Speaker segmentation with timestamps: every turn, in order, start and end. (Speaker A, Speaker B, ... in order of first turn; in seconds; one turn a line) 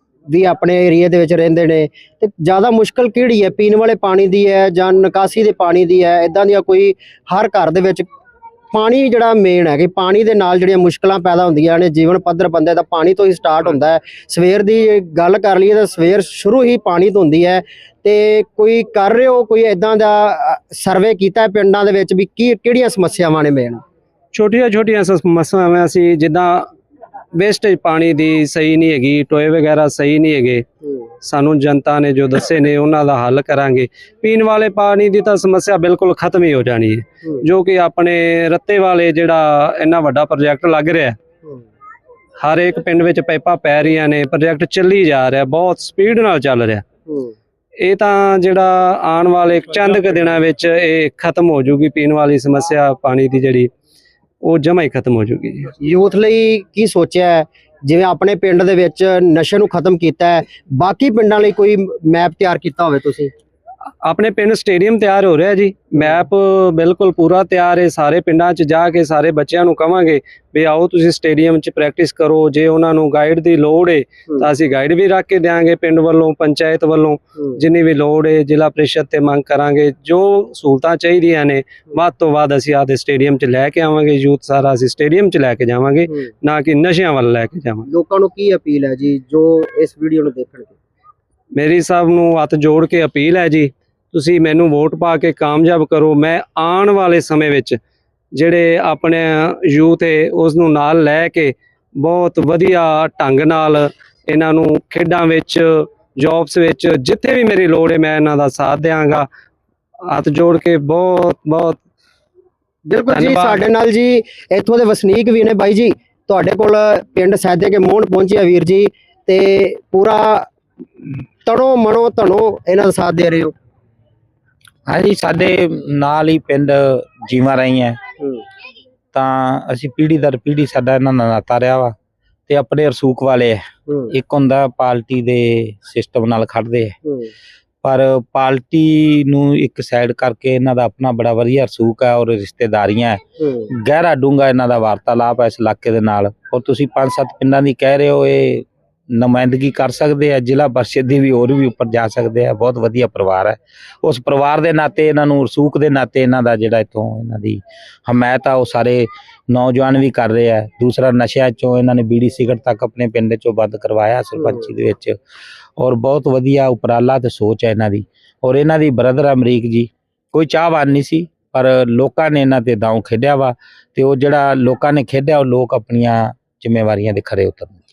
Speaker A: 0.3-8.1
Speaker A: 8.7-23.8
Speaker B: 24.3-26.7
Speaker B: 27.3-30.6
Speaker B: 31.2-41.1
Speaker B: 42.4-46.8
Speaker A: 47.1-47.3
Speaker B: 47.8-53.7
Speaker B: 54.4-55.7
Speaker A: 55.8-63.3
Speaker B: 64.0-87.9
Speaker A: 87.9-90.7
Speaker B: 91.5-97.8
Speaker B: 98.3-109.2
Speaker B: 110.0-111.8
Speaker A: 112.8-120.5
Speaker B: 113.1-113.6
Speaker A: 121.0-123.5
Speaker C: 124.9-128.0
Speaker C: 129.1-131.9
Speaker C: 132.5-136.9
Speaker A: 133.9-134.1
Speaker A: 137.0-137.3
Speaker C: 137.8-143.2
Speaker A: 143.4-143.7
Speaker C: 143.8-165.2
Speaker A: 164.4-164.6
Speaker C: 165.8-177.8